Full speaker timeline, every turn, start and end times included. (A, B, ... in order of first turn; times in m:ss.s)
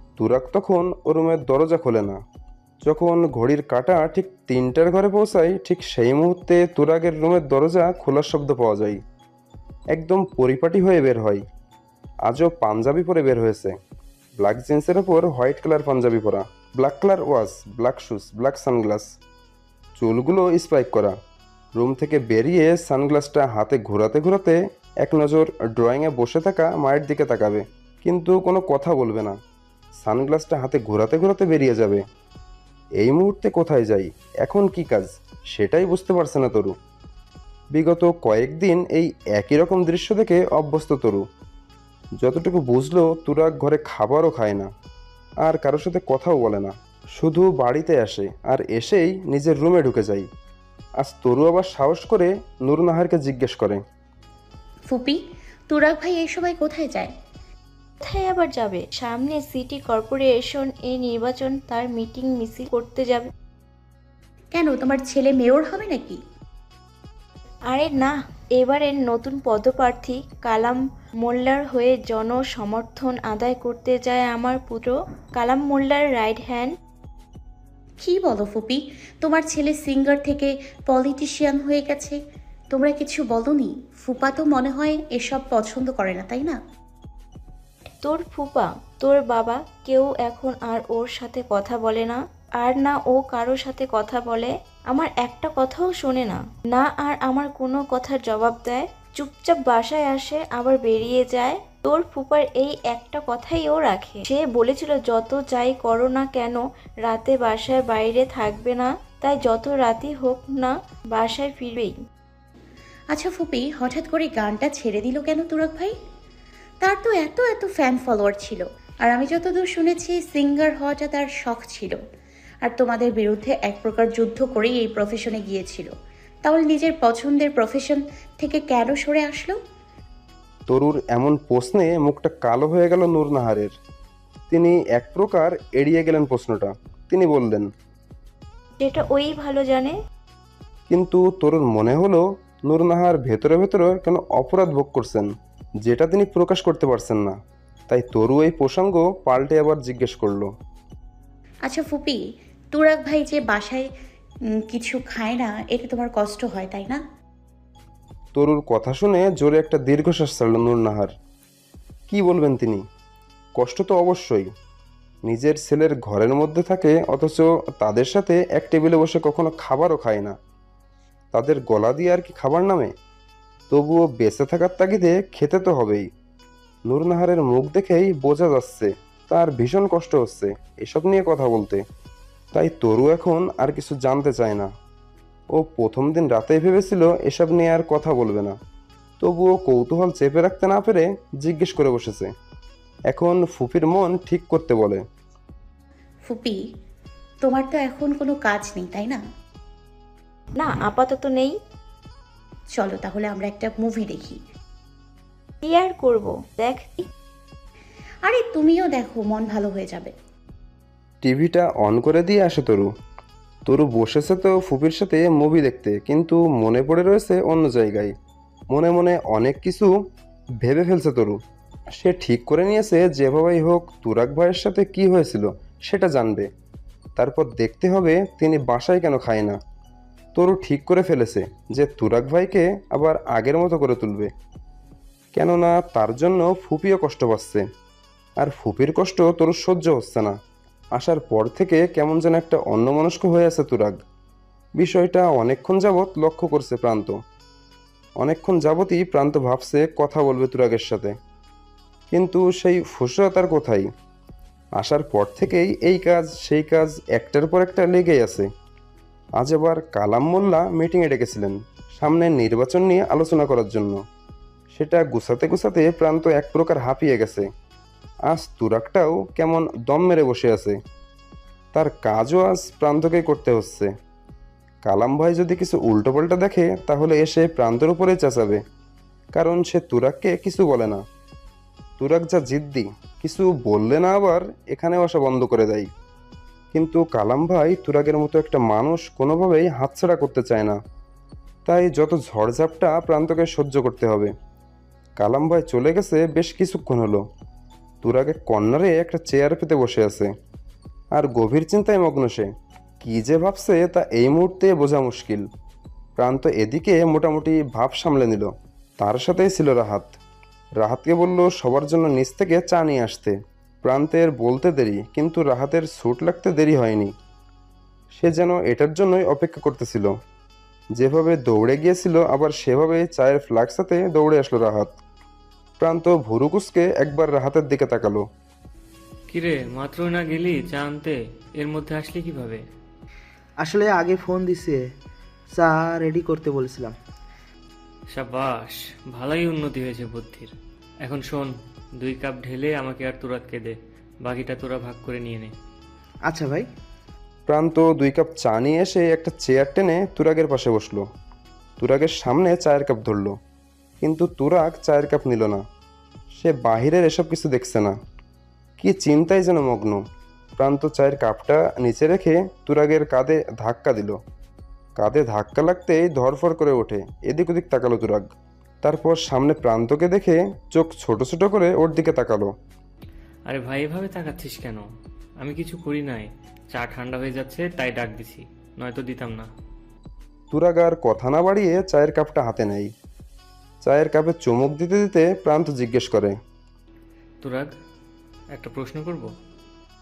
0:00.2-0:02.2 A
0:02.8-0:09.0 A
0:09.9-0:11.4 A
0:12.3-0:13.8 A
0:14.4-0:19.1 A
0:20.0-0:21.2 A
0:21.8-0:29.4 A
0:30.0-0:32.0 A
0:33.0-0:36.7 A
0:37.7-0:41.2 A
0:42.2-0:44.7 A
0:45.4-0:50.3 A
0:51.0-0:53.8 A
0:54.9-0:55.2 B
0:55.7-0:57.1 B
0:58.0-1:03.2 C
1:04.5-1:06.2 B
1:07.7-1:16.7 C
1:18.0-1:22.2 B
1:22.7-1:26.6 B
1:28.1-1:52.0 C
1:53.1-1:55.9 B
1:56.8-2:02.0 B
2:02.6-2:05.9 B
2:06.5-2:09.6 B
2:10.7-2:13.7 A
2:14.5-2:17.7 A
2:18.8-2:19.9 C
2:20.9-2:25.3 A
2:25.8-2:27.4 A
2:27.9-2:30.5 A
2:31.7-2:32.2 B
2:32.7-2:33.9 B
2:34.7-2:37.0 B
2:38.4-2:41.1 A
2:42.1-2:42.8 A
2:43.6-2:44.5 A
2:45.3-2:50.4 A
2:51.3-2:52.9 A
2:53.7-2:56.1 A
2:56.9-3:01.8 A
3:02.5-3:04.7 A
3:05.6-3:08.6 A
3:09.2-3:12.3 A
3:13.1-3:15.0 A
3:16.3-3:16.6 B
3:17.4-3:19.2 B
3:20.6-3:21.5 C
3:22.8-3:24.4 B
3:25.6-3:27.0 C
3:28.3-3:30.1 B
3:31.2-3:32.9 A
3:33.7-3:38.1 A
3:38.7-3:39.9 A
3:40.6-3:41.4 A
3:42.0-3:46.5 A
3:47.2-3:49.6 A
3:50.4-3:54.3 A
3:55.4-3:57.6 A
3:58.4-4:00.4 A
4:01.0-4:04.0 A
4:04.8-4:07.2 A
4:08.2-4:11.1 A
4:12.1-4:13.9 A
4:14.8-4:18.5 A
4:19.4-4:24.0 A
4:24.7-4:27.5 A
4:28.3-4:30.8 A
4:31.7-4:33.9 A
4:34.8-4:38.6 A
4:39.4-4:41.0 A
4:42.0-4:45.9 A
4:46.7-4:50.8 A
4:51.7-4:54.3 A
4:55.2-4:57.2 A
4:58.0-5:00.3 A
5:01.2-5:02.5 A
5:03.0-5:05.4 A
5:06.2-5:10.1 A
5:10.8-5:17.1 A
5:18.2-5:20.1 A
5:21.0-5:24.9 A
5:25.8-5:28.2 A
5:29.3-5:32.6 D
5:33.6-5:34.8 E
5:35.6-5:37.0 E
5:38.1-5:45.5 D
5:46.3-5:46.7 E
5:47.5-5:51.0 A
5:51.8-5:53.4 A
5:54.0-5:55.6 A
5:56.3-5:58.0 A
5:58.8-6:00.0 A
6:00.6-6:04.2 A
6:05.0-6:08.3 A
6:08.8-6:12.5 A
6:13.5-6:14.9 D
6:15.4-6:19.5 D
6:20.5-6:22.9 A
6:23.8-6:26.4 A
6:27.4-6:27.7 D
6:28.5-6:29.3 D